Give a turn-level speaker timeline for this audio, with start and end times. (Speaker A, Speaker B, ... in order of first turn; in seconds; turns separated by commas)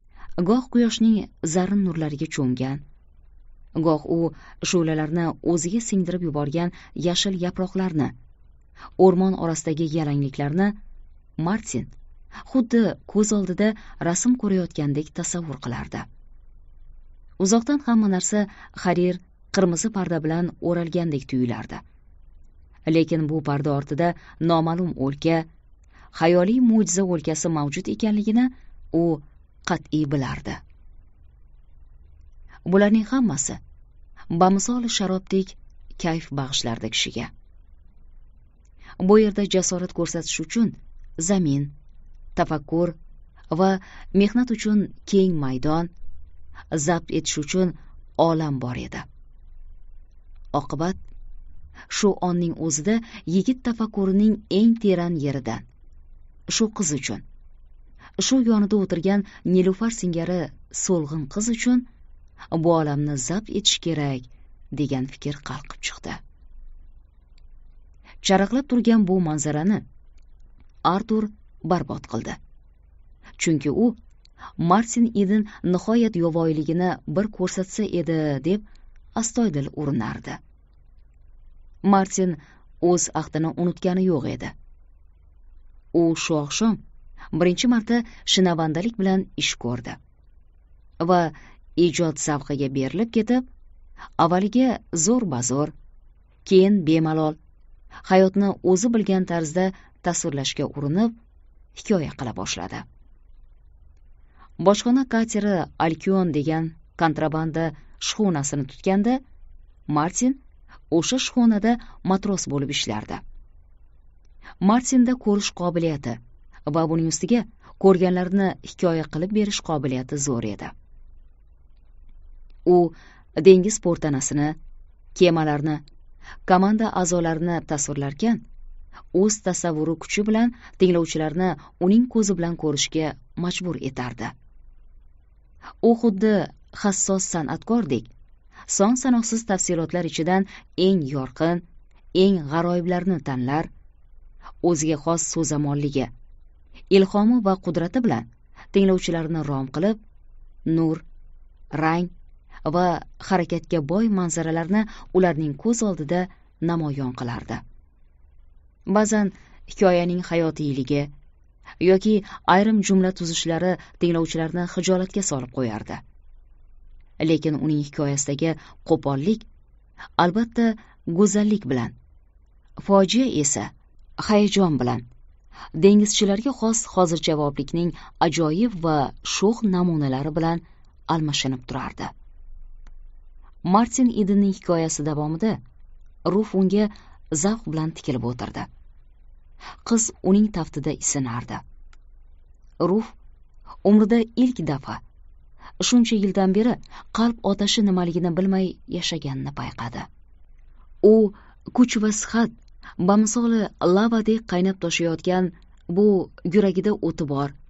Speaker A: 0.4-2.8, Speaker A: 3.8-8.1, Speaker A: 9.0-10.7, Speaker A: 11.4-11.9, Speaker A: 12.4-16.1, Speaker A: 17.4-21.8, Speaker A: 22.9-25.4, Speaker A: 26.1-30.6, Speaker A: 32.7-33.6, Speaker A: 34.3-37.3, Speaker A: 39.0-41.7, Speaker A: 42.4-43.0, Speaker A: 43.5-45.9, Speaker A: 46.7-49.0, Speaker A: 50.5-51.0, Speaker A: 51.9-55.6, Speaker A: 56.5-57.2, Speaker A: 58.2-61.9, Speaker A: 62.5-66.2, Speaker A: 68.2-69.8, Speaker A: 70.8-72.4, Speaker A: 73.4-74.0, Speaker A: 74.6-78.6, Speaker A: 79.2-80.4, Speaker A: 81.8-84.5, Speaker A: 85.9-86.8, Speaker A: 87.3-90.0, Speaker A: 91.0-93.4, Speaker A: 94.2-95.7, Speaker A: 96.4-97.3, Speaker A: 98.0-101.1, Speaker A: 101.7-102.8, Speaker A: 104.6-109.2, Speaker A: 109.9-110.4, Speaker A: 110.9-113.2, Speaker A: 114.6-120.7, Speaker A: 122.7-124.6, Speaker A: 125.1-125.8, Speaker A: 126.5-128.4, Speaker A: 129.1-134.3, Speaker A: 135.8-138.1, Speaker A: 138.7-141.6, Speaker A: 142.1-143.7, Speaker A: 144.6-146.1, Speaker A: 146.9-150.0, Speaker A: 150.7-151.0, Speaker A: 151.7-152.1, Speaker A: 152.7-157.6, Speaker A: 158.9-161.1, Speaker A: 161.8-166.0, Speaker A: 167.2-169.4, Speaker A: 170.2-171.9, Speaker A: 172.8-175.0, Speaker A: 175.8-182.1, Speaker A: 183.6-185.6, Speaker A: 186.3-188.7, Speaker A: 189.8-191.6, Speaker A: 192.8-193.1, Speaker A: 193.8-195.0, Speaker A: 195.8-200.1, Speaker A: 201.0-207.5